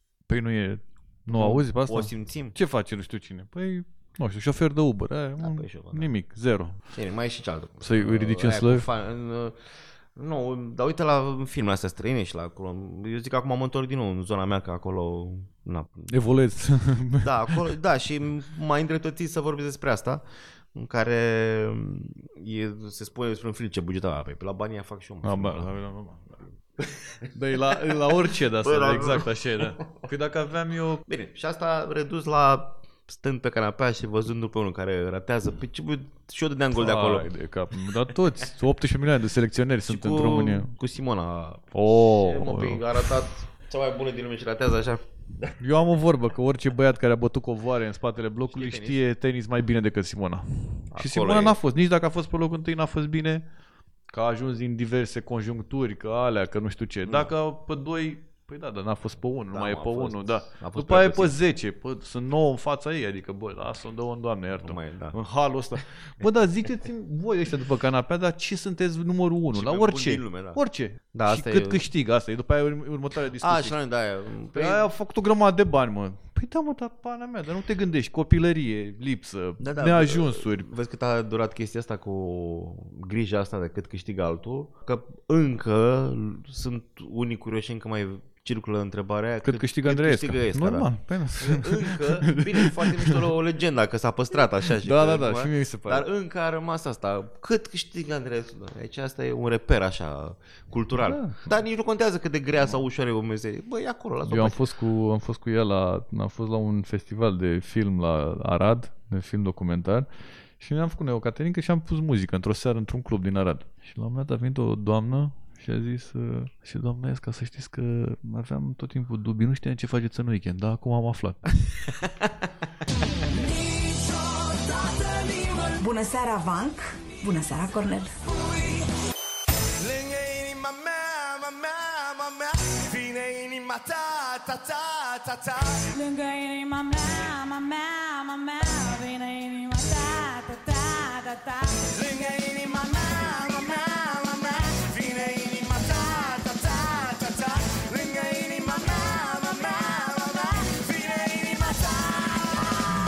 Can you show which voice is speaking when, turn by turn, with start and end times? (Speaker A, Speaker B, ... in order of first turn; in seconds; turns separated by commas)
Speaker A: 0.3-6.9, Speaker B: 1.3-2.5, Speaker B: 5.4-6.1, Speaker B: 6.9-16.1, Speaker A: 7.8-8.9, Speaker A: 16.1-17.6, Speaker B: 17.2-25.7, Speaker A: 25.2-26.2, Speaker B: 26.8-30.0, Speaker A: 27.3-31.0, Speaker B: 31.1-37.3, Speaker A: 36.7-40.7, Speaker B: 39.9-45.5, Speaker A: 41.7-42.8, Speaker A: 45.6-53.4, Speaker B: 48.5-49.0, Speaker B: 50.9-51.6, Speaker A: 54.1-73.8, Speaker B: 57.0-57.3, Speaker B: 59.5-61.4, Speaker B: 64.6-65.2, Speaker B: 69.5-71.8, Speaker B: 73.4-74.9, Speaker A: 74.5-80.7, Speaker B: 79.6-104.5, Speaker A: 89.4-93.1, Speaker A: 94.8-96.0, Speaker A: 101.0-101.5, Speaker A: 104.3-121.5, Speaker C: 125.8-128.1, Speaker D: 129.8-135.8, Speaker E: 135.9-142.2, Speaker D: 141.9-152.4